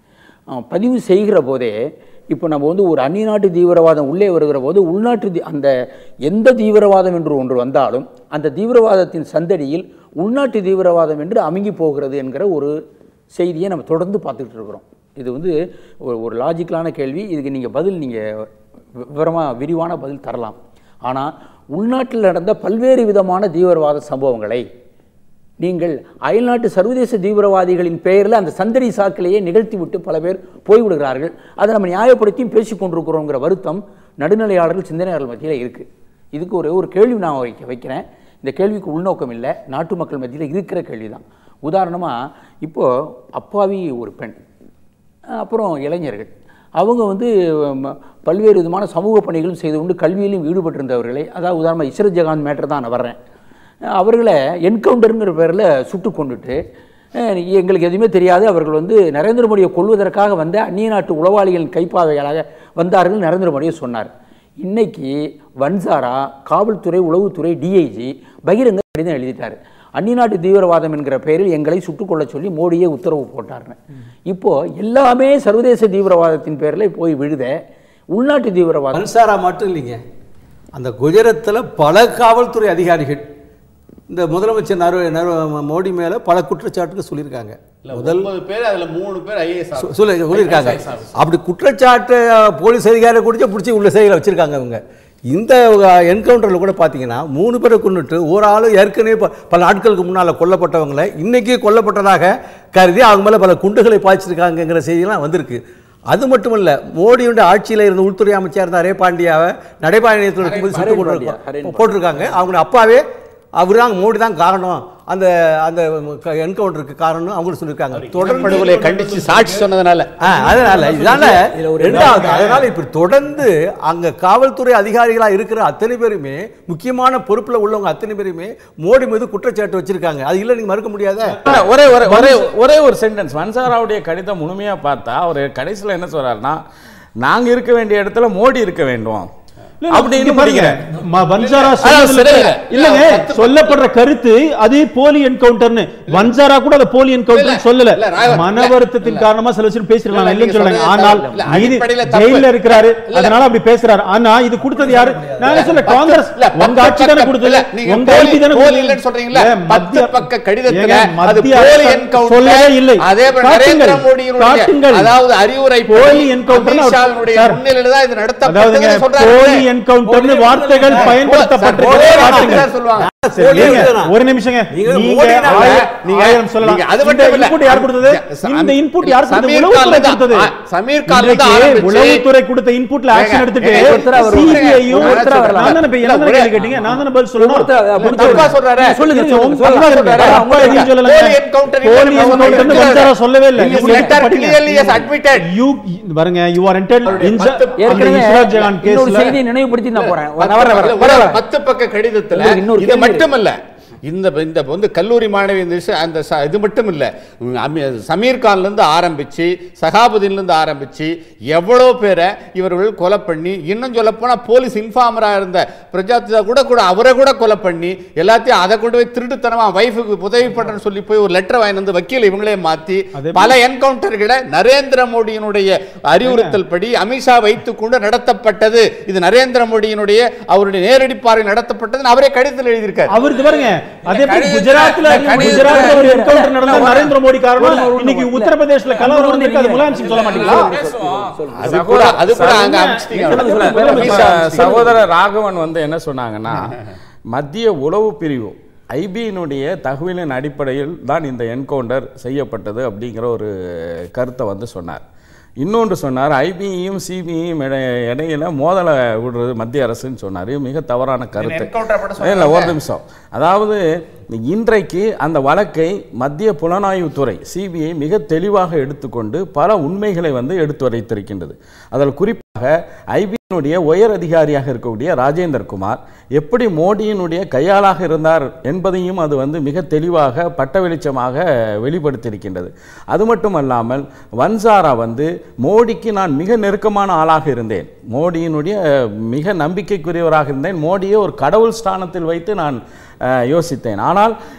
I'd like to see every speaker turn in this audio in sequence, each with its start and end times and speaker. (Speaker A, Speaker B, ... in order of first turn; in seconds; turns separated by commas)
Speaker A: 0.5-1.8, Speaker A: 2.3-5.7, Speaker A: 6.3-12.7, Speaker A: 13.3-15.5, Speaker A: 16.1-18.2, Speaker A: 19.1-24.6, Speaker A: 25.6-44.4, Speaker A: 45.4-53.2, Speaker A: 54.0-56.6, Speaker A: 57.2-64.1, Speaker A: 64.6-77.5, Speaker A: 78.1-79.0, Speaker B: 78.9-80.0, Speaker B: 80.8-83.3, Speaker B: 84.1-88.3, Speaker C: 87.8-91.1, Speaker B: 89.8-113.0, Speaker A: 110.6-111.9, Speaker B: 113.6-118.8, Speaker D: 118.1-119.6, Speaker C: 118.2-120.7, Speaker B: 120.2-131.4, Speaker D: 120.6-121.3, Speaker A: 121.5-122.3, Speaker D: 121.8-122.6, Speaker E: 131.5-136.6, Speaker E: 137.2-139.3, Speaker D: 139.8-165.2, Speaker E: 139.9-140.8, Speaker C: 141.3-143.9, Speaker C: 147.3-149.3, Speaker C: 150.1-153.4, Speaker A: 151.1-151.5, Speaker B: 154.6-155.8, Speaker C: 155.4-169.7, Speaker D: 165.8-167.6, Speaker D: 168.4-172.7, Speaker B: 170.1-171.2, Speaker C: 170.9-173.1, Speaker B: 171.8-174.1, Speaker D: 173.4-180.5, Speaker B: 174.7-175.8, Speaker C: 175.4-182.2, Speaker D: 181.1-188.5, Speaker C: 183.1-186.9, Speaker A: 183.7-185.8, Speaker A: 187.4-190.9, Speaker C: 188.0-189.0, Speaker D: 189.0-199.4, Speaker C: 189.6-195.5, Speaker A: 192.2-192.9, Speaker A: 193.6-194.2, Speaker C: 197.1-198.7, Speaker A: 197.8-201.4, Speaker C: 199.9-233.1, Speaker A: 202.3-203.3, Speaker D: 223.2-223.6, Speaker D: 226.2-226.6, Speaker D: 233.1-240.8, Speaker C: 234.1-236.0, Speaker E: 234.2-236.1, Speaker A: 235.7-242.2, Speaker C: 236.7-237.1, Speaker E: 240.0-246.8, Speaker C: 241.6-244.9, Speaker D: 242.4-244.6, Speaker A: 243.5-245.0, Speaker E: 247.3-255.0, Speaker E: 255.6-288.8, Speaker C: 261.4-262.8, Speaker E: 289.3-292.8, Speaker E: 293.4-294.3